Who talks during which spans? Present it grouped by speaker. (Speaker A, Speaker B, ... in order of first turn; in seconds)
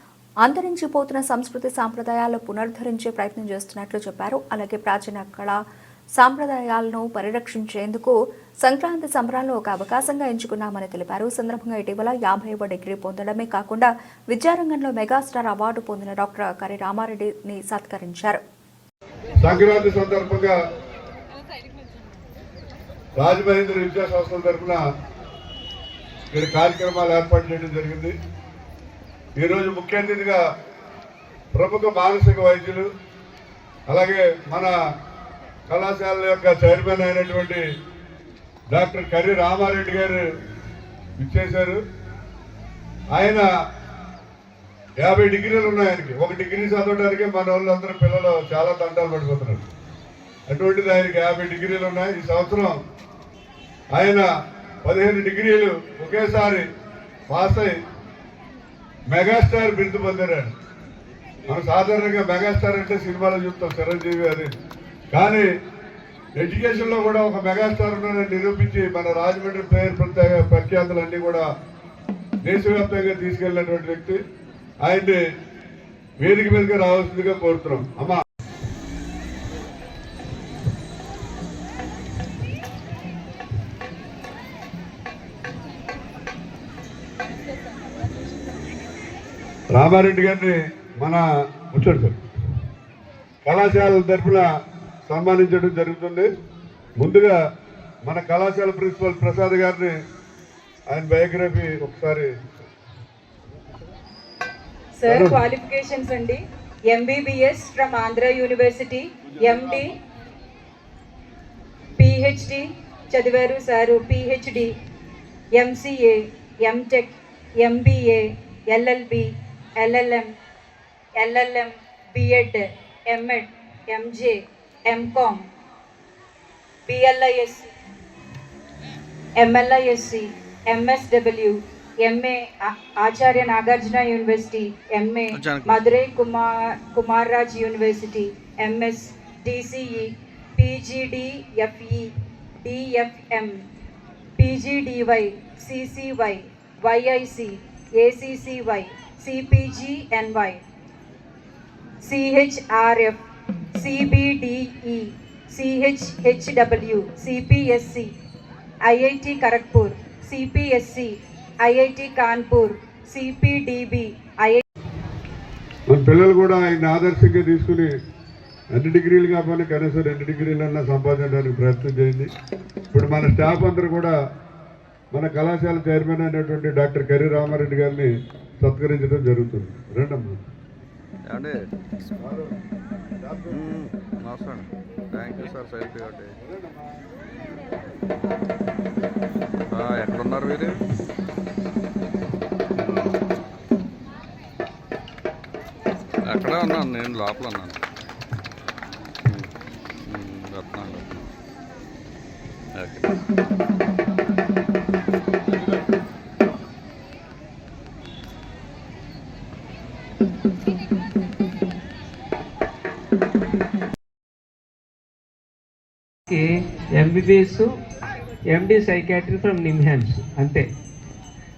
Speaker A: 0.4-5.6, 6.2-18.4
Speaker B: 19.4-20.5, 23.2-24.8, 26.3-28.1, 29.4-30.4, 31.5-32.9, 33.9-34.7, 35.7-37.6, 38.7-40.2, 41.2-41.8, 43.1-43.5, 45.0-49.6, 50.5-52.8, 53.9-54.3, 54.8-56.6, 57.3-57.7, 59.1-60.5, 61.5-64.5, 65.1-65.5, 66.4-71.4, 72.4-74.2, 74.8-75.2, 76.2-78.2, 89.7-92.2, 93.4-94.5, 95.1-96.3, 97.0-97.3, 98.0-99.9, 100.9-102.3, 105.1-105.3, 165.9-167.9, 168.7-172.3, 172.9-174.1, 175.1-180.4, 182.2-182.6, 183.2-183.6, 186.4-187.0
Speaker C: 104.9-109.9, 112.0-114.7, 115.5-120.3, 121.2-125.4, 126.9-127.7, 129.4-143.6, 144.4-150.6, 152.0-153.2, 153.8-158.1, 158.9-164.6
Speaker D: 135.3-135.8, 181.3-181.7, 183.5-186.3, 189.7-190.8, 192.8-193.2, 196.2-197.8, 200.1-201.2, 202.7-203.2
Speaker E: 217.0-217.7, 218.5-220.6